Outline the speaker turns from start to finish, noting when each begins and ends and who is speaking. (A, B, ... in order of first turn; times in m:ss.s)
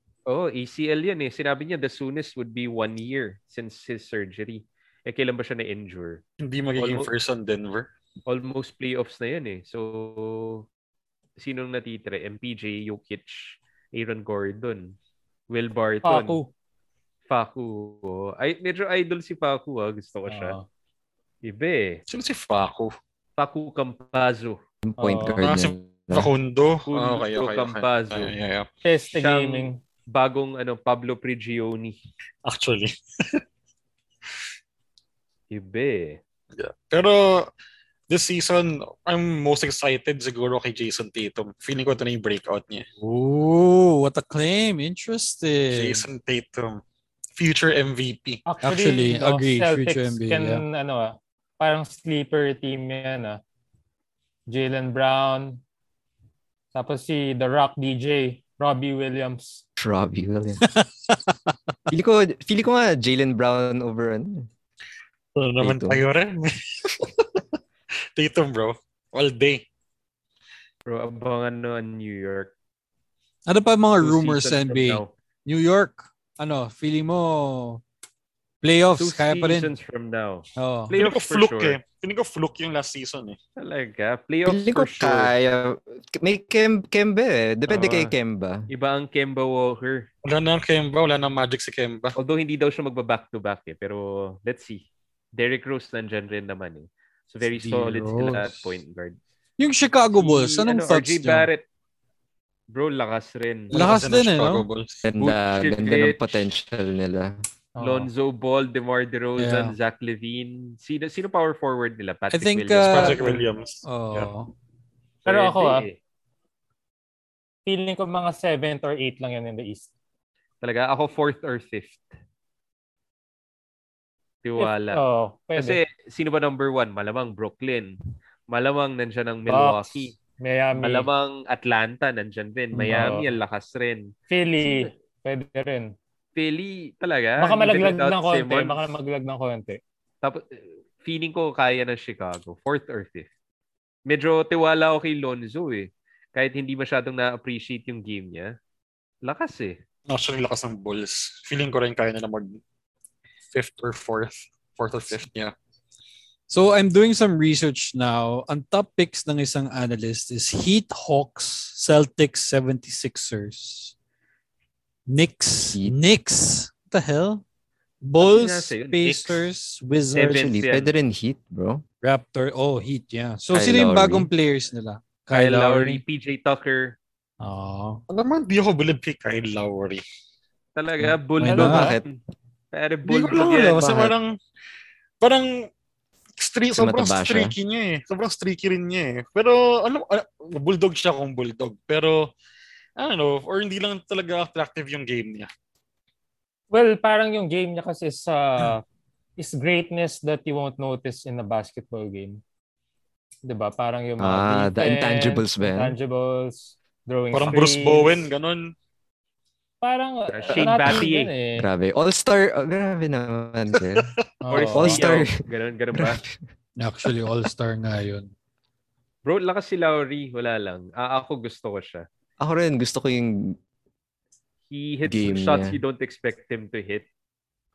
0:00.3-0:06.2 A
0:06.4-0:07.9 B
0:06.8-0:07.1 A
0:08.3-0:10.7 A
0:11.4-0:15.0 A
0:15.5-0:16.4 A
0:16.0-0:16.5 C
0:17.3-0:20.6 A
0:20.3-0:20.6 C
0:21.4-0:22.0 A
0:22.1-0:22.9 B
0:23.4-0:24.6 A
0:24.8-0:26.3 D
0:25.0-0:25.4 C
0:25.4-0:28.7 B
0:26.9-0:28.3 A
0:28.8-0:29.8 C
0:29.2-0:31.9 A
0:32.4-0:33.4 B
0:35.5-0:36.2 A
0:36.6-0:37.5 B
0:38.1-0:42.8 B
0:43.0-0:46.1 E
0:45.7-0:46.8 B
0:47.4-0:48.4 B
0:48.4-0:53.4 C
0:48.6-0:50.6 E
0:54.5-0:55.6 C
0:56.7-0:59.6 C
0:59.8-1:00.6 D
1:01.9-1:04.5 D
1:05.4-1:07.4 B
1:05.6-1:06.0 D
1:08.1-1:09.6 B
1:10.9-1:12.5 A
1:13.4-1:17.8 E
1:14.0-1:15.1 A
1:18.6-1:19.7 E
1:19.0-1:21.8 A
1:20.6-1:20.9 E
1:20.9-1:23.4 B
1:23.6-1:25.3 A
1:24.4-1:28.7 D
1:27.7-1:28.1 A
1:28.7-1:30.1 A
1:30.2-1:32.2 B
1:32.2-1:39.2 A
1:37.4-1:38.8 E
1:39.6-1:41.5 E
1:40.1-1:41.6 A
1:42.7-1:43.7 A
1:43.7-1:45.1 B
1:43.7-1:44.6 E
1:45.0-1:47.4 D
1:45.2-1:46.4 A
1:47.8-1:48.1 C
1:47.8-1:53.3 A
1:49.4-1:49.8 E
1:52.3-1:54.5 E
1:52.8-1:54.3 B
1:55.3-1:55.9 C
1:55.3-1:56.0 A
1:57.6-1:59.9 C
2:00.6-2:02.0 A
2:04.4-2:05.0 A
2:04.6-2:05.8 C
2:05.6-2:08.0 A
2:08.5-2:10.1 A
2:09.5-2:11.1 C
2:10.8-2:14.1 A
2:12.8-2:13.3 C
2:14.3-2:15.9 C
2:14.6-2:14.9 A
2:16.4-2:19.0 A
2:17.4-2:19.8 C
2:20.2-2:23.3 A
2:24.1-2:28.5 A
2:29.2-2:29.8 A
2:30.1-2:32.6 B
2:33.5-2:35.5 B
2:36.5-2:43.9 E
2:45.1-2:47.4 E
2:48.0-2:50.5 E
2:48.2-2:49.4 A
2:50.1-2:50.9 A
2:50.3-2:51.8 D
2:52.0-2:56.0 E
2:53.5-2:54.3 D
2:55.3-2:57.0 A
2:57.4-2:58.0 E
2:58.1-3:00.0 B
3:00.8-3:02.2 A
3:01.0-3:01.9 E
3:01.5-3:02.0 B
3:01.7-3:02.0 D
3:02.7-3:04.1 A
3:03.0-3:04.3 B
3:05.2-3:05.7 B
3:06.4-3:12.3 B
3:06.8-3:07.5 D
3:13.0-3:15.5 B
3:16.7-3:18.8 C
3:19.4-3:22.4 C
3:23.4-3:28.2 C
3:24.2-3:26.0 D
3:27.3-3:28.7 B
3:29.8-3:31.7 C
3:30.3-3:31.3 A
3:30.6-3:34.1 D
3:33.9-3:34.2 B
3:34.4-3:35.0 C
3:34.5-3:36.2 A
3:34.7-3:35.4 D
3:35.9-3:36.4 D
3:36.8-3:38.3 E
3:39.2-3:42.0 A
3:42.4-3:43.6 D
3:44.7-3:47.0 A
3:45.0-3:45.8 D